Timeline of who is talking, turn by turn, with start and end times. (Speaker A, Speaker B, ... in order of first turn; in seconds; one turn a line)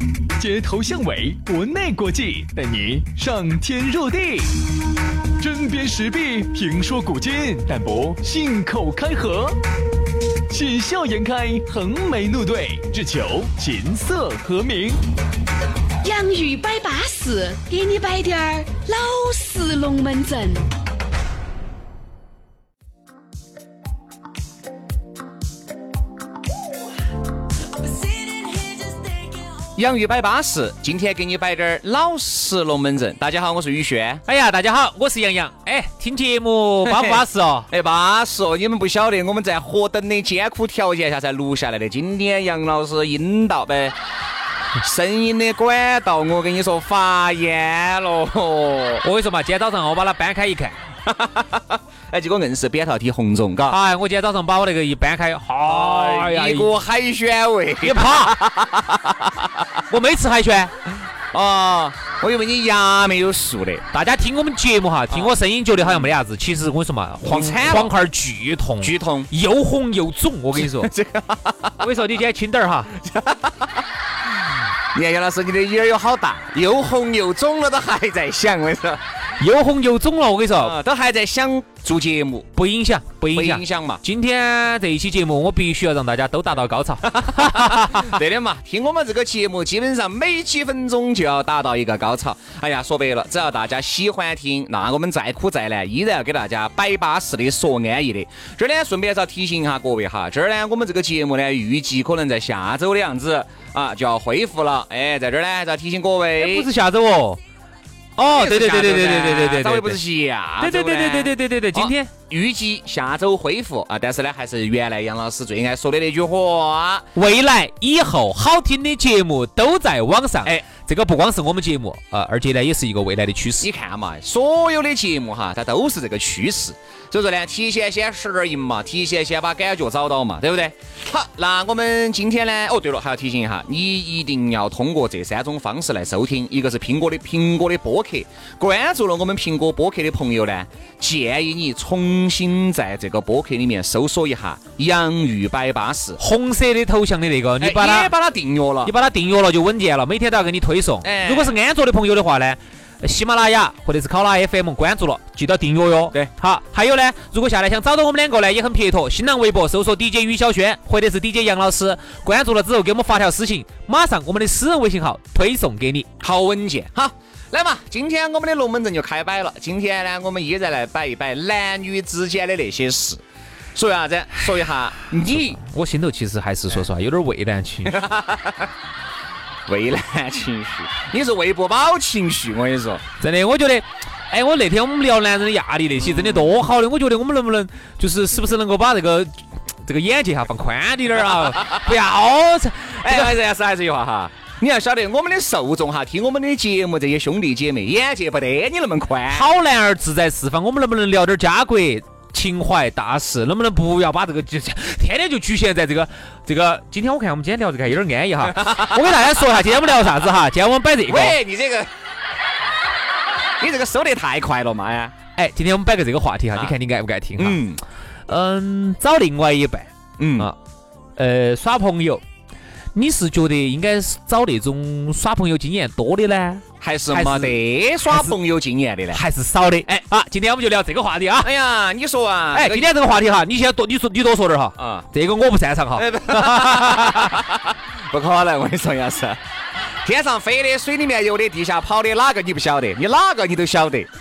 Speaker A: 0.4-4.5
Speaker A: 5.4-9.6
Speaker A: 10.5-15.0
Speaker B: 16.0-20.7
Speaker C: 29.8-34.2
Speaker D: 34.3-37.7
Speaker C: 36.8-44.0
Speaker C: 44.8-49.0
Speaker D: 49.0-50.8
Speaker C: 51.0-53.8
Speaker D: 53.7-56.7
Speaker C: 55.6-59.7
Speaker D: 57.8-58.4
Speaker D: 59.9-60.7
Speaker C: 61.3-63.8
Speaker D: 63.9-70.9
Speaker C: 65.1-66.0
Speaker C: 67.2-68.0
Speaker C: 68.8-69.3
Speaker C: 70.5-71.9
Speaker D: 71.8-72.9
Speaker C: 72.9-73.8
Speaker C: 74.9-79.0
Speaker D: 79.4-80.8
Speaker C: 80.6-82.5
Speaker D: 82.5-88.1
Speaker C: 83.3-84.0
Speaker C: 87.2-106.7
Speaker D: 106.4-107.4
Speaker D: 108.2-110.0
Speaker C: 108.3-117.1
Speaker D: 110.6-112.1
Speaker D: 117.1-123.7
Speaker C: 123.6-146.2
Speaker D: 146.2-148.1
Speaker C: 147.6-148.9
Speaker D: 148.8-166.1
Speaker C: 151.0-151.5
Speaker C: 166.2-173.2
Speaker C: 173.7-175.6
Speaker D: 175.3-178.1
Speaker C: 177.8-178.7
Speaker C: 179.7-183.0
Speaker D: 183.2-189.3
Speaker C: 186.0-186.6
Speaker D: 189.8-193.3
Speaker C: 191.4-191.8
Speaker C: 193.0-199.4
Speaker D: 199.3-211.4
Speaker C: 208.5-209.0
Speaker C: 211.1-211.9
Speaker C: 213.6-215.1
Speaker D: 215.3-217.6
Speaker C: 217.4-217.8
Speaker D: 218.3-220.6
Speaker C: 220.2-220.5
Speaker D: 221.2-222.2
Speaker D: 222.9-228.3
Speaker C: 226.8-229.2
Speaker D: 229.1-231.5
Speaker C: 231.4-232.9
Speaker D: 232.5-237.4
Speaker C: 234.8-235.1
Speaker C: 235.9-239.4
Speaker C: 239.9-244.1